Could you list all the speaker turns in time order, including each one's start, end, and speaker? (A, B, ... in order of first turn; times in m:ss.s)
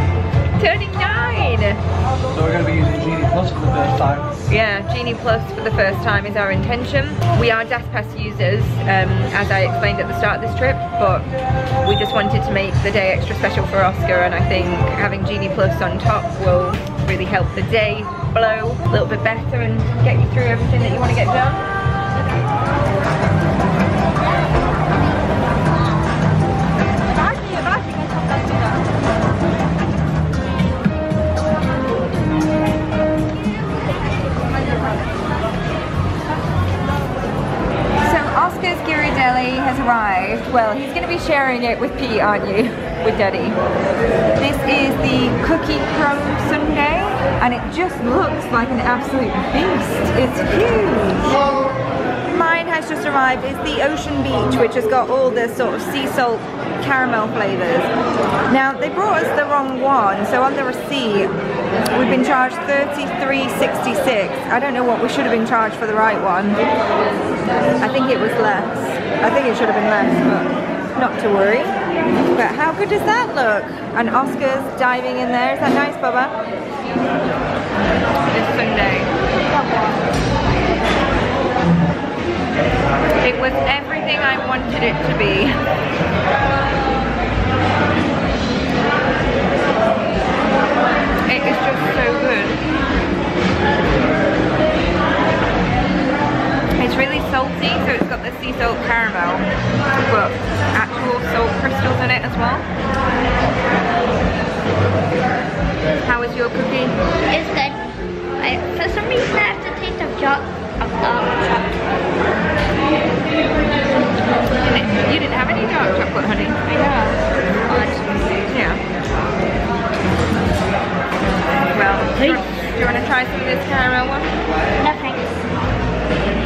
0:00.6-0:01.8 A
0:02.3-0:04.4 B
0:04.5-0:11.3 A
0:11.8-0:21.6 A
0:38.0-0:43.6 A
0:44.4-0:51.4 A
0:52.2-0:57.9 A
0:58.5-1:01.3 A
1:01.9-1:06.6 A
1:07.8-1:11.7 A
1:12.3-1:16.4 A
1:18.3-1:19.1 A
1:23.2-1:25.6 A
1:31.2-1:32.6 A
1:36.8-1:39.5 A
1:40.0-1:42.6 A
1:46.0-1:46.9 A
1:47.3-1:47.8 C
1:48.4-1:51.8 C
1:54.6-1:56.7 A
1:56.7-1:58.0 C
1:58.5-1:58.8 A
2:01.7-2:04.3 A
2:04.8-2:05.4 C